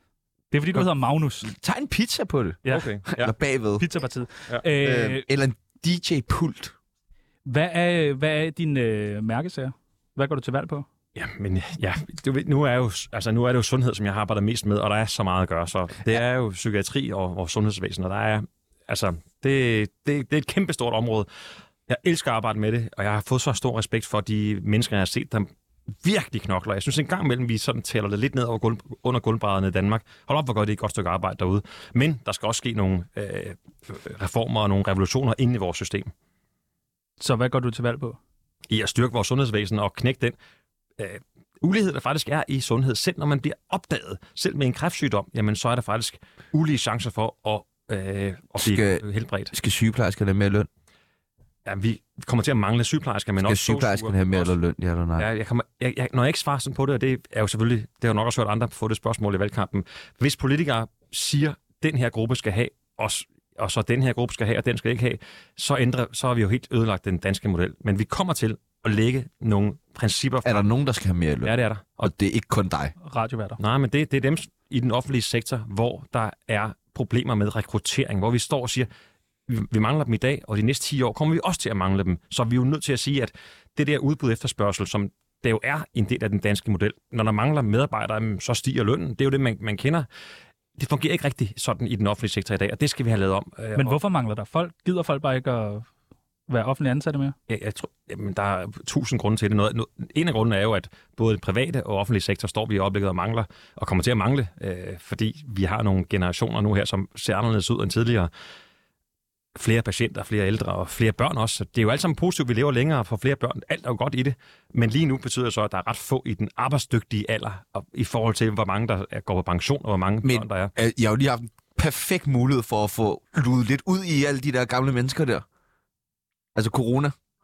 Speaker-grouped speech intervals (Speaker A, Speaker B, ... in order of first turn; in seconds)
Speaker A: 0.5-1.5, 2.6-2.9, 3.8-5.3, 7.5-10.9, 37.2-38.2, 73.0-73.6, 93.8-95.9, 96.5-97.3
Speaker B: 1.4-3.9, 4.7-6.8, 48.6-50.7, 53.4-55.3, 70.4-72.9, 120.2-125.5, 126.5-127.1
Speaker C: 2.7-3.3, 11.2-21.3, 21.9-25.5, 26.0-36.1, 38.7-40.4, 41.0-49.5, 51.6-54.5, 55.2-70.7, 71.4-72.1, 73.6-78.9, 79.5-90.1, 90.8-94.0, 97.5-108.3, 109.5-120.7